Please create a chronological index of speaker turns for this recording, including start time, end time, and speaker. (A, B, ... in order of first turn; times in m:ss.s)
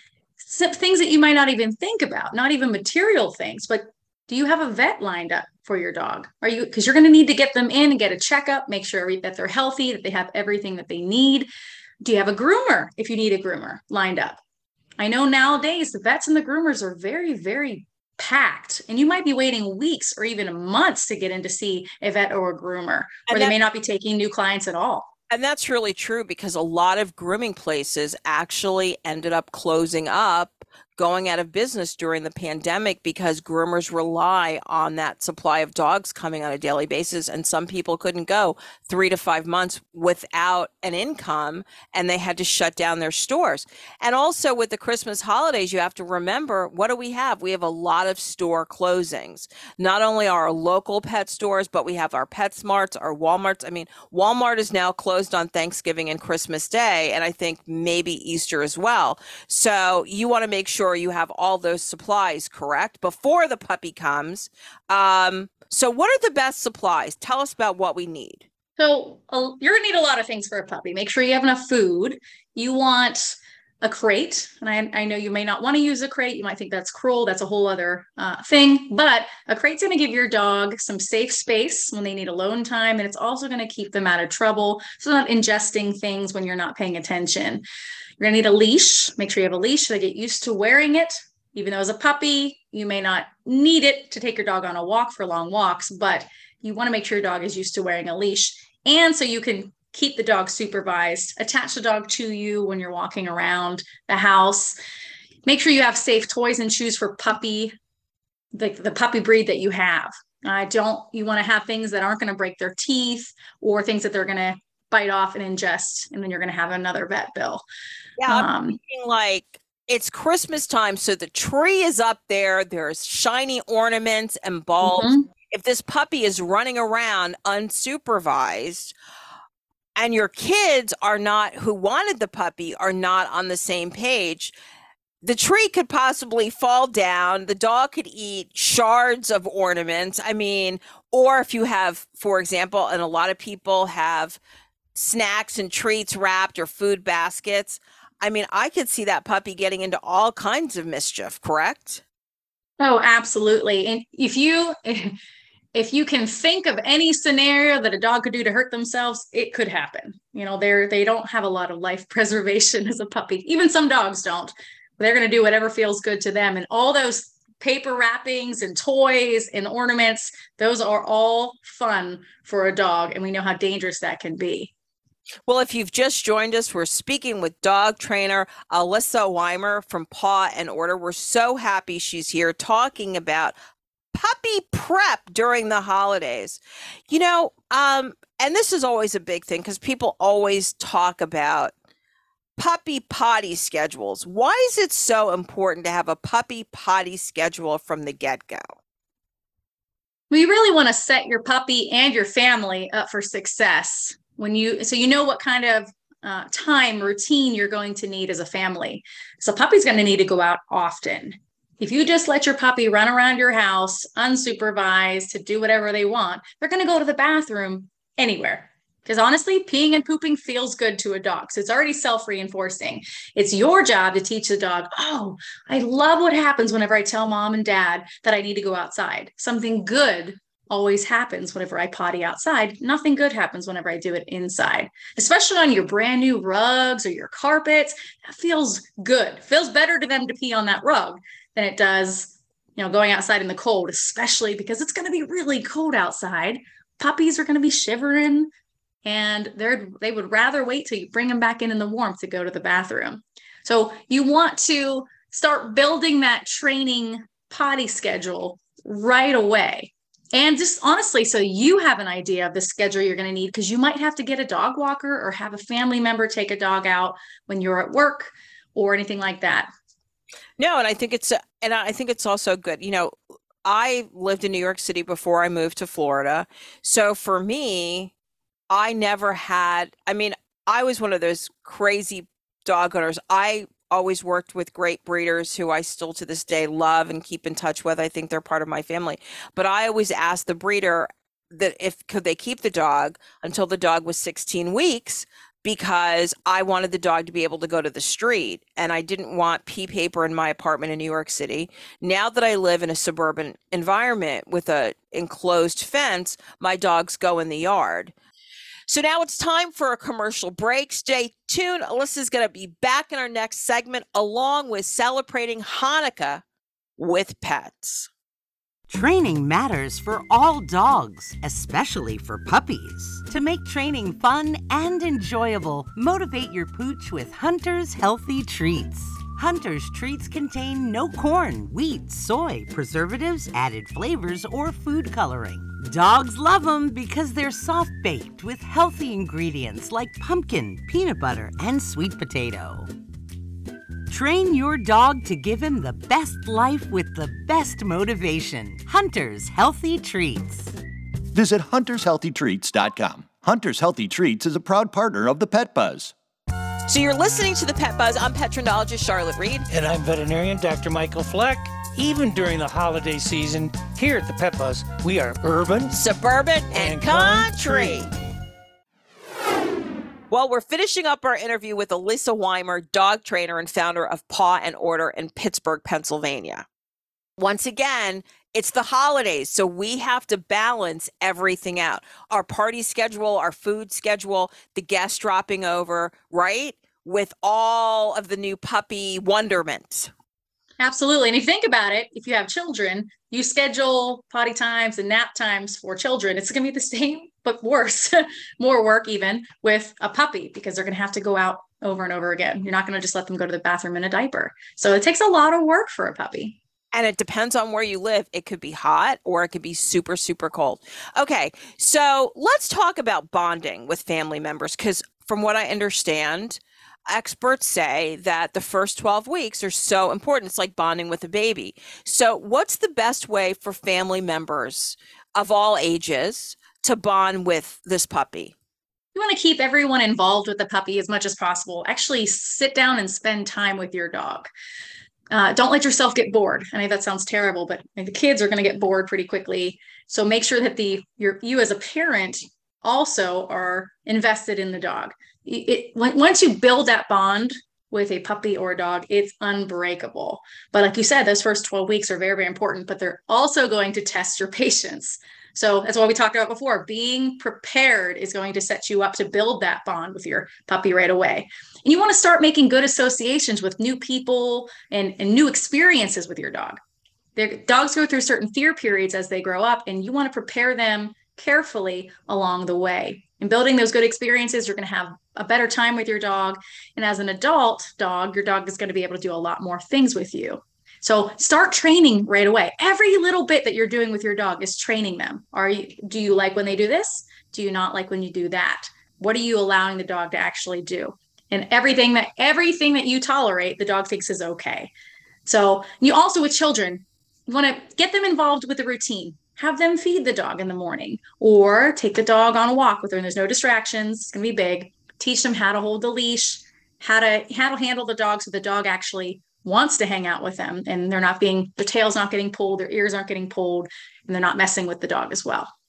0:00.4-0:11.5 A
0:12.0-0:14.4 A
0:15.0-0:25.1 A
0:23.3-0:23.6 B
0:25.3-1:08.4 B
1:08.8-1:27.6 A
1:28.2-1:44.8 A
1:45.4-1:47.7 A
1:48.5-1:57.6 A
1:58.2-2:08.9 B
1:58.2-1:58.8 A
2:04.8-2:05.2 A
2:10.0-2:14.5 B
2:15.2-2:24.4 B
2:24.9-2:32.0 B
2:32.8-2:35.2 A
2:35.7-2:54.7 A
2:55.5-3:03.5 B
3:04.1-3:11.7 B
3:12.6-3:18.6 B
3:20.3-4:08.5 A
4:09.0-4:29.7 A
4:30.6-4:33.1 B
4:33.6-4:38.1 B
4:38.7-5:08.1 B
5:08.9-5:16.4 B
5:17.0-5:18.1 B
5:18.9-5:42.9 C
5:44.1-5:50.8 C
5:51.3-5:56.1 D
5:56.9-5:59.6 B
5:59.7-6:05.9 E
6:05.9-6:08.1 B
6:06.7-6:08.0 E
6:10.3-6:16.6 B
6:17.4-6:30.1 B
6:30.8-6:46.6 A
6:46.9-7:08.5 B
7:09.1-7:14.5 A
7:15.3-7:46.8 A
7:47.4-8:14.9 A
8:15.4-8:35.7 A